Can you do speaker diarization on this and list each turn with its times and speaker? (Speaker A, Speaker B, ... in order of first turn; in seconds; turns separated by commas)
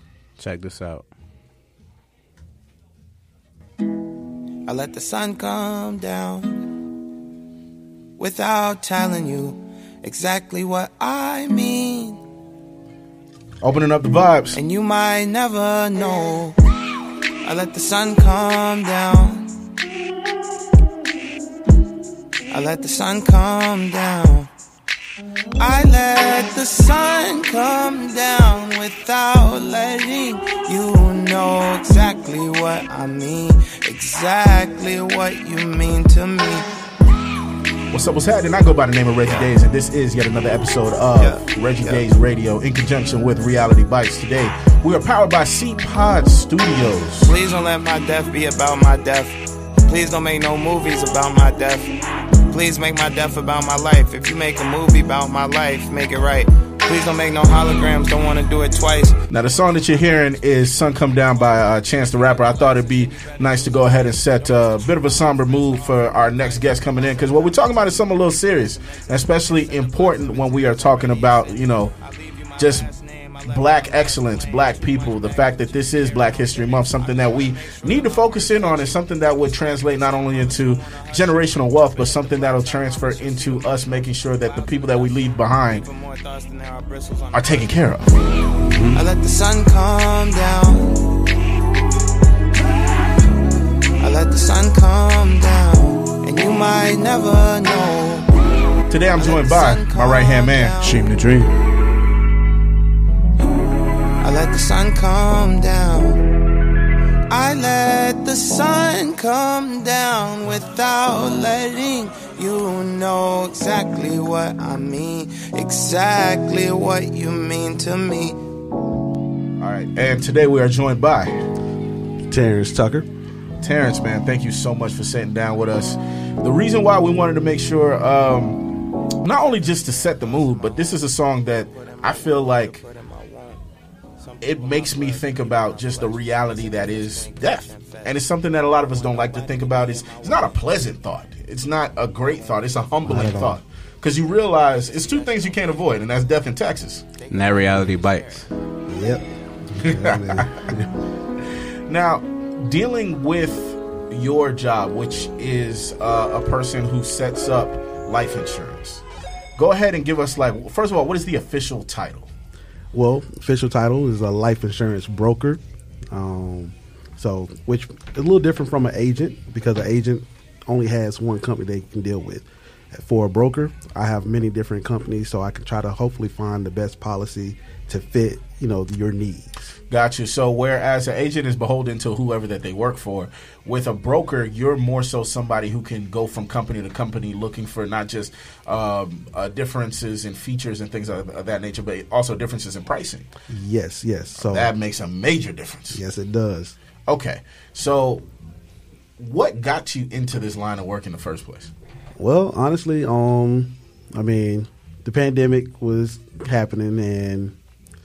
Speaker A: 0.4-1.1, Speaker B: 4.7-6.7, Speaker B: 8.2-12.2, Speaker C: 13.6-14.6, Speaker B: 14.5-16.6, Speaker B: 17.4-19.5, Speaker B: 22.5-24.5, Speaker B: 25.6-36.7, Speaker C: 37.9-47.3, Speaker B: 41.2-42.0, Speaker B: 47.2-51.9, Speaker B: 52.5-87.8, Speaker C: 59.3-71.9, Speaker C: 72.6-72.9, Speaker C: 73.4-85.9, Speaker C: 87.3-88.1, Speaker A: 88.6-89.0, Speaker B: 88.9-91.2, Speaker B: 94.0-98.3, Speaker C: 98.9-100.8, Speaker B: 99.1-101.1, Speaker A: 101.0-101.4, Speaker B: 104.2-106.2, Speaker B: 107.3-118.4, Speaker C: 119.6-121.3, Speaker D: 122.2-123.1, Speaker C: 123.6-132.8, Speaker B: 129.7-140.8, Speaker C: 134.4-147.1, Speaker B: 142.2-142.9, Speaker D: 143.0-143.6, Speaker B: 144.9-146.1, Speaker B: 147.1-148.5, Speaker A: 147.3-148.5, Speaker D: 148.9-150.9, Speaker C: 149.8-150.7, Speaker C: 151.4-159.0, Speaker C: 159.6-162.3, Speaker D: 162.9-165.6, Speaker D: 166.1-179.8, Speaker C: 179.9-193.3, Speaker D: 193.5-194.7, Speaker C: 194.3-196.0, Speaker D: 195.9-196.8, Speaker C: 197.1-198.2, Speaker C: 199.2-201.7, Speaker D: 202.2-207.6